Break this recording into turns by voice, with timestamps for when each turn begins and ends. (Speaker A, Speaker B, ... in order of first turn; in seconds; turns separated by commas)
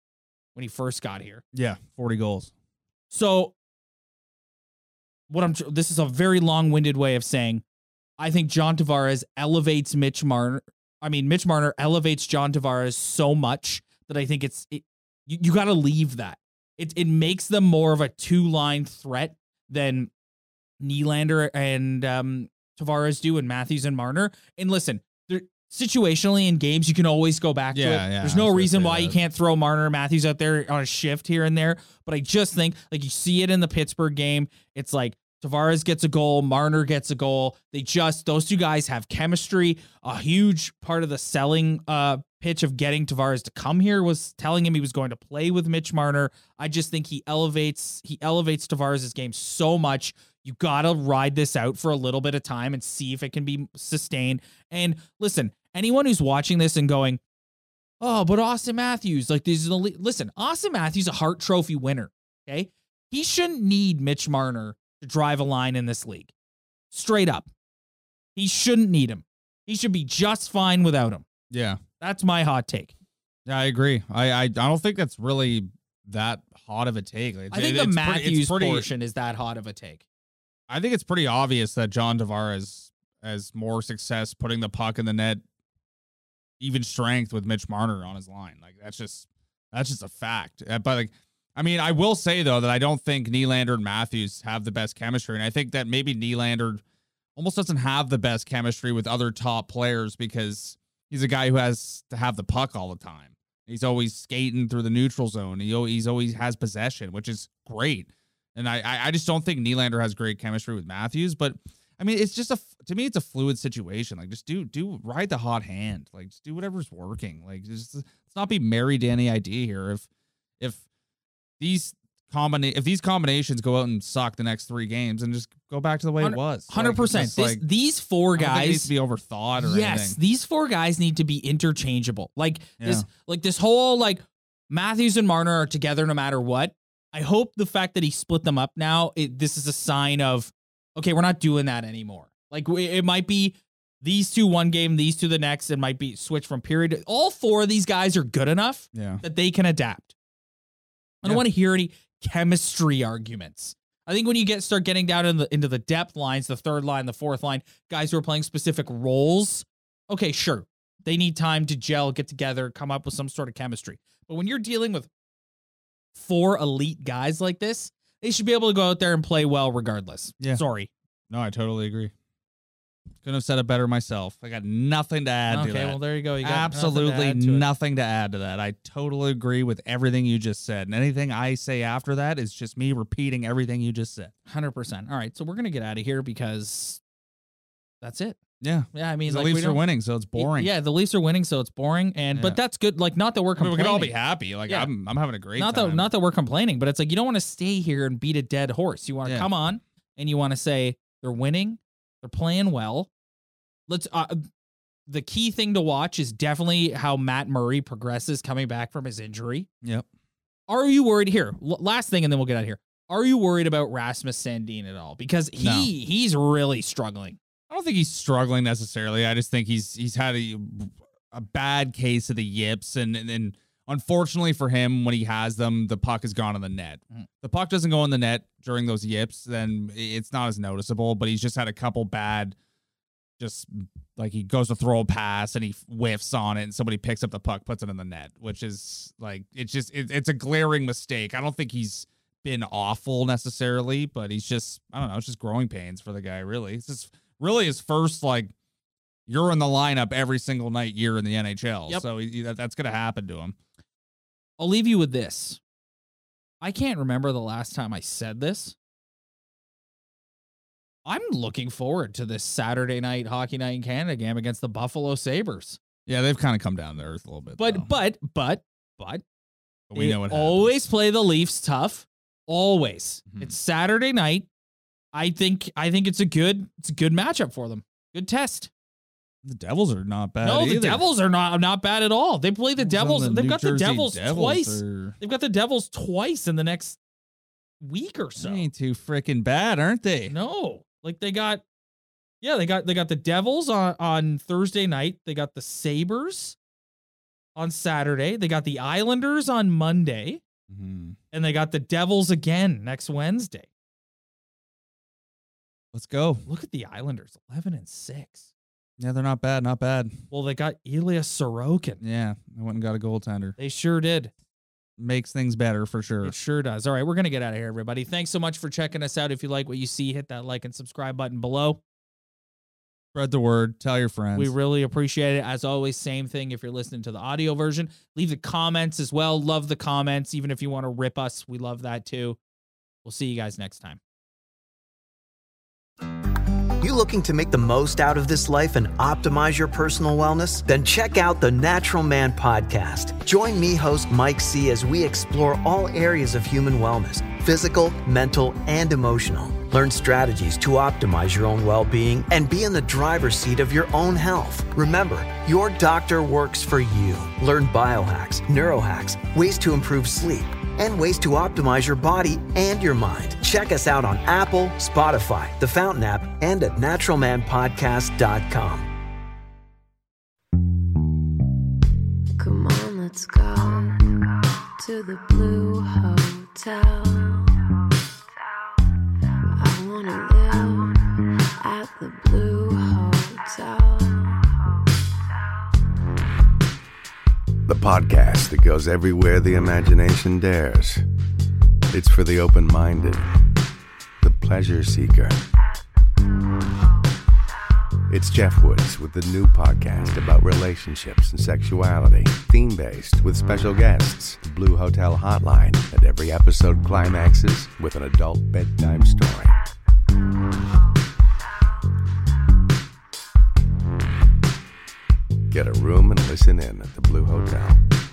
Speaker A: 0.6-1.4, Speaker B: 1.5-2.5, Speaker A: 3.1-3.5, Speaker A: 5.3-7.6, Speaker A: 8.2-20.1, Speaker A: 20.8-57.2, Speaker B: 27.7-29.2, Speaker A: 58.0-66.3, Speaker A: 66.9-67.5, Speaker A: 68.3-71.3, Speaker B: 71.5-71.8, Speaker A: 72.0-72.9, Speaker B: 73.5-78.9, Speaker A: 77.5-80.0, Speaker B: 80.7-85.4, Speaker B: 86.6-96.8, Speaker B: 97.4-120.1, Speaker B: 121.6-127.7, Speaker A: 126.2-128.9, Speaker B: 128.4-130.2, Speaker A: 129.6-150.1, Speaker B: 132.8-133.1, Speaker B: 148.9-149.2, Speaker A: 151.2-165.1, Speaker A: 166.1-170.9, Speaker B: 171.3-172.1, Speaker B: 173.2-184.3, Speaker A: 175.5-177.7, Speaker A: 184.5-187.0, Speaker A: 188.0-188.4, Speaker B: 188.6-190.7, Speaker A: 188.9-189.8, Speaker A: 190.3-194.2, Speaker B: 192.3-192.6, Speaker B: 193.6-196.1, Speaker A: 195.6-203.1, Speaker B: 199.2-199.5, Speaker A: 203.9-204.5, Speaker A: 205.1-209.7, Speaker A: 210.7-217.4, Speaker B: 215.6-215.9, Speaker B: 217.7-232.6, Speaker B: 233.4-248.5, Speaker B: 249.3-253.6, Speaker A: 254.6-255.6, Speaker A: 256.6-258.8, Speaker A: 261.1-265.8, Speaker B: 266.1-267.9, Speaker A: 267.6-269.2, Speaker B: 269.9-270.7, Speaker A: 269.9-274.5, Speaker A: 275.1-278.7, Speaker B: 279.4-281.0, Speaker A: 280.4-287.0, Speaker B: 282.8-285.2, Speaker A: 287.8-288.7, Speaker B: 288.4-290.3, Speaker A: 290.3-291.6, Speaker A: 292.4-296.6, Speaker A: 297.6-300.4, Speaker B: 300.7-301.2, Speaker A: 301.3-303.7, Speaker B: 305.9-306.4, Speaker A: 306.5-308.5, Speaker B: 309.0-310.2, Speaker A: 310.3-312.0, Speaker B: 312.0-313.6, Speaker A: 313.6-314.3, Speaker B: 315.0-316.4, Speaker A: 316.2-321.8, Speaker B: 323.1-324.5, Speaker A: 324.4-332.4, Speaker A: 333.0-334.0, Speaker C: 336.8-368.9, Speaker D: 372.4-377.5, Speaker D: 379.6-384.6, Speaker E: 387.7-391.0, Speaker E: 391.9-393.3, Speaker E: 394.2-395.4, Speaker E: 398.1-409.6, Speaker E: 415.5-417.8